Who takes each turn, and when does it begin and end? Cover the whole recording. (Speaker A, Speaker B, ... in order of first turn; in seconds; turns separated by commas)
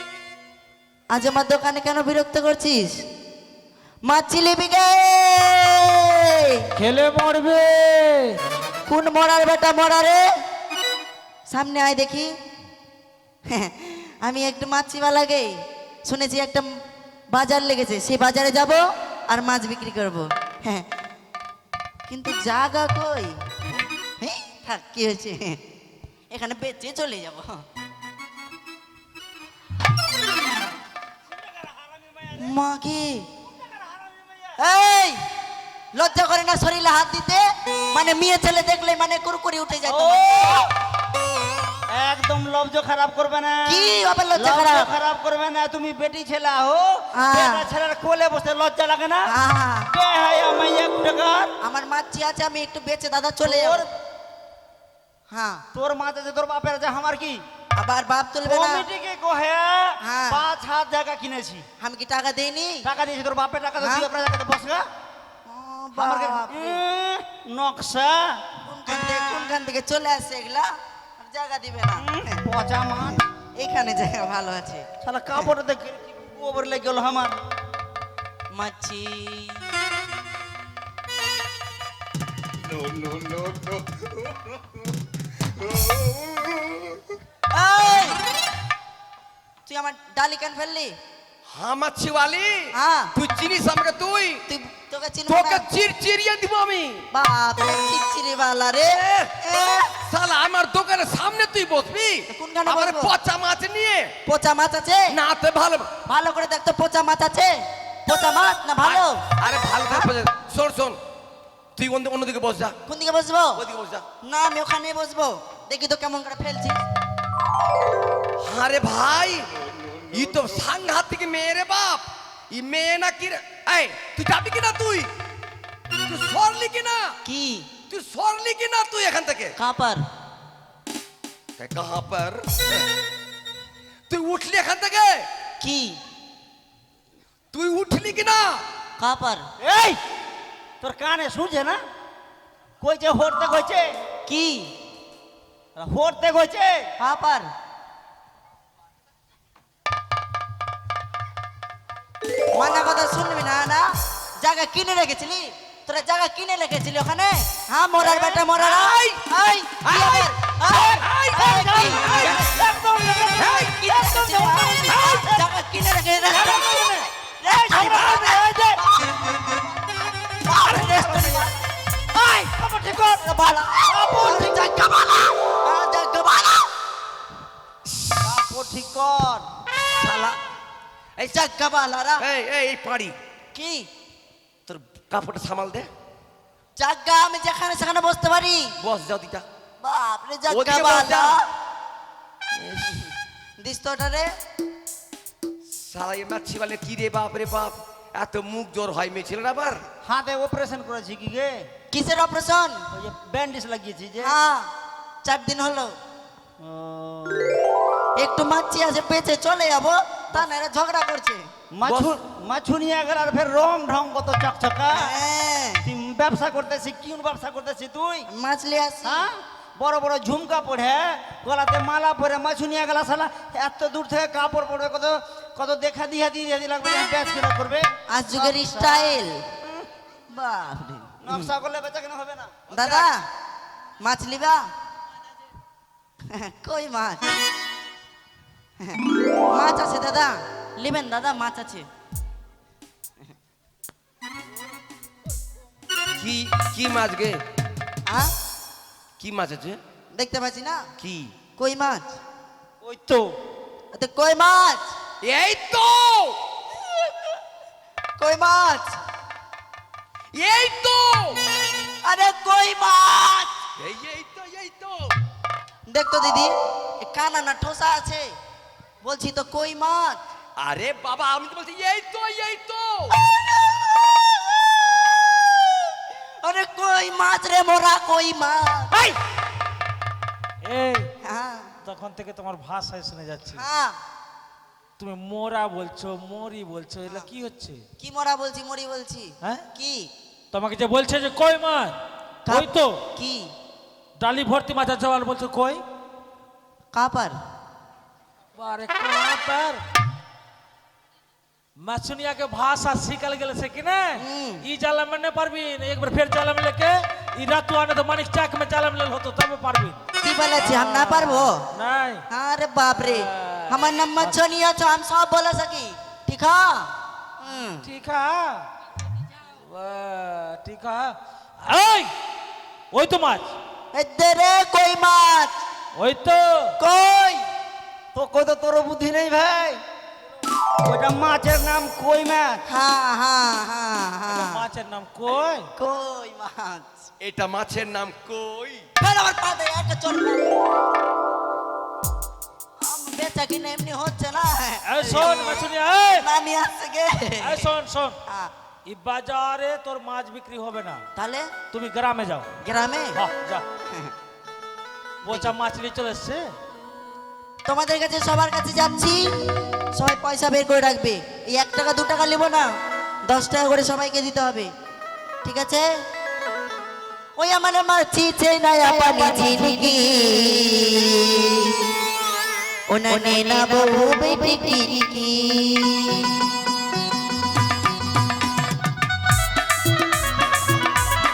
Speaker A: 1.1-3.0, Speaker A: 4.0-6.5, Speaker B: 6.8-8.4, Speaker A: 8.9-10.2, Speaker A: 11.5-12.3, Speaker A: 13.5-15.5, Speaker A: 16.0-16.6, Speaker A: 17.3-20.8, Speaker A: 22.1-23.3, Speaker A: 24.2-25.6, Speaker A: 26.3-27.6, Speaker A: 32.3-33.2, Speaker A: 34.6-35.2, Speaker A: 35.9-40.6, Speaker C: 39.9-40.6, Speaker C: 41.9-49.3, Speaker A: 43.7-44.9, Speaker A: 47.1-47.6, Speaker A: 49.3-49.9, Speaker C: 49.9-51.5, Speaker A: 51.6-53.9, Speaker C: 53.4-53.9, Speaker A: 55.3-55.6, Speaker C: 55.7-57.4, Speaker A: 57.8-58.8, Speaker C: 58.4-61.6, Speaker A: 60.0-60.4, Speaker A: 61.8-62.8, Speaker C: 62.8-64.8, Speaker A: 63.8-64.1, Speaker A: 65.5-66.8, Speaker C: 65.9-68.4, Speaker A: 68.7-72.1, Speaker C: 72.0-73.2, Speaker A: 73.5-75.5, Speaker C: 75.0-77.3, Speaker A: 78.5-79.7, Speaker A: 87.5-88.2, Speaker A: 89.7-91.0, Speaker D: 91.5-94.4, Speaker A: 92.7-93.1, Speaker A: 94.5-95.7, Speaker D: 95.3-97.1, Speaker A: 97.1-99.9, Speaker D: 98.9-99.2, Speaker D: 100.0-104.1, Speaker A: 102.3-103.1, Speaker A: 104.2-105.1, Speaker D: 105.1-105.9, Speaker A: 106.0-107.5, Speaker A: 108.1-109.2, Speaker D: 108.8-111.0, Speaker D: 111.8-112.8, Speaker A: 112.9-113.6, Speaker D: 113.5-114.0, Speaker A: 114.2-116.8, Speaker D: 118.4-125.1, Speaker D: 126.0-127.2, Speaker A: 127.2-127.7, Speaker D: 127.9-129.6, Speaker A: 129.6-130.0, Speaker D: 131.6-132.9, Speaker D: 134.1-135.3, Speaker A: 135.6-136.0, Speaker D: 137.5-138.6, Speaker A: 139.0-139.4, Speaker C: 139.6-140.0, Speaker C: 140.8-141.8, Speaker C: 142.8-143.9, Speaker A: 144.2-144.7, Speaker C: 145.8-146.9, Speaker A: 147.0-147.5, Speaker A: 152.5-162.7, Speaker D: 158.0-159.2, Speaker D: 159.9-163.8, Speaker A: 163.3-168.8, Speaker C: 164.3-165.0, Speaker D: 166.5-167.0, Speaker D: 167.8-168.2, Speaker A: 170.4-171.5, Speaker C: 172.2-174.7, Speaker A: 173.7-176.7, Speaker C: 178.2-179.4, Speaker D: 179.9-180.4, Speaker A: 181.2-182.2, Speaker D: 182.2-183.2, Speaker A: 183.5-183.9, Speaker D: 184.7-185.9, Speaker A: 186.8-188.7, Speaker D: 188.8-189.4, Speaker A: 189.8-191.4, Speaker D: 190.5-191.4, Speaker D: 192.5-193.1, Speaker A: 193.6-194.3, Speaker D: 195.7-199.8, Speaker C: 200.1-201.5, Speaker A: 201.9-202.8, Speaker C: 202.9-204.4, Speaker A: 204.2-204.7, Speaker A: 205.2-205.9, Speaker C: 206.6-207.5, Speaker A: 208.2-211.5, Speaker C: 211.7-215.2, Speaker D: 211.8-212.1, Speaker A: 214.9-215.8, Speaker C: 215.8-218.3, Speaker A: 218.3-219.3, Speaker C: 219.0-229.2, Speaker A: 228.1-229.4, Speaker A: 230.3-231.5, Speaker C: 231.2-233.1, Speaker A: 232.7-233.2, Speaker A: 234.0-234.7, Speaker A: 236.3-237.3, Speaker A: 238.8-241.9, Speaker D: 246.2-247.4, Speaker A: 248.1-248.3, Speaker D: 249.2-249.8, Speaker A: 250.1-250.9, Speaker D: 251.0-251.3, Speaker A: 251.6-252.2, Speaker C: 252.8-253.3, Speaker A: 253.9-254.9, Speaker D: 255.2-256.4, Speaker A: 258.2-259.0, Speaker D: 260.3-261.4, Speaker A: 262.0-263.5, Speaker D: 263.8-265.1, Speaker A: 265.9-268.3, Speaker A: 269.0-270.2, Speaker D: 270.6-273.1, Speaker A: 276.4-279.0, Speaker B: 280.6-281.1, Speaker A: 281.2-281.7, Speaker B: 281.8-283.6, Speaker A: 283.5-284.0, Speaker B: 285.0-287.8, Speaker A: 288.0-290.1, Speaker B: 290.5-291.9, Speaker A: 292.4-293.5, Speaker B: 292.5-293.0, Speaker B: 294.2-295.8, Speaker A: 296.9-297.4, Speaker B: 298.6-299.8, Speaker B: 301.8-310.0, Speaker A: 304.1-304.6, Speaker A: 310.2-311.6, Speaker B: 310.6-312.2, Speaker A: 312.3-317.9, Speaker B: 313.0-314.4, Speaker B: 317.8-318.6, Speaker B: 319.6-322.1, Speaker B: 322.9-323.5, Speaker A: 323.9-325.6, Speaker B: 326.0-326.7, Speaker A: 326.8-327.4, Speaker C: 328.1-329.8, Speaker C: 330.8-332.6, Speaker A: 332.7-334.6, Speaker B: 334.3-335.7, Speaker A: 335.8-337.0, Speaker D: 337.2-338.8, Speaker A: 339.0-340.4, Speaker A: 342.8-345.6, Speaker B: 344.9-346.2, Speaker A: 346.1-347.7, Speaker B: 347.4-348.2, Speaker B: 348.9-351.0, Speaker A: 351.1-351.5, Speaker B: 351.7-352.5, Speaker A: 352.6-353.2, Speaker B: 353.1-353.6, Speaker B: 355.2-356.4, Speaker A: 357.6-359.2, Speaker A: 359.9-362.7, Speaker A: 363.3-364.7, Speaker A: 365.4-365.9, Speaker A: 367.4-371.4, Speaker A: 372.9-376.2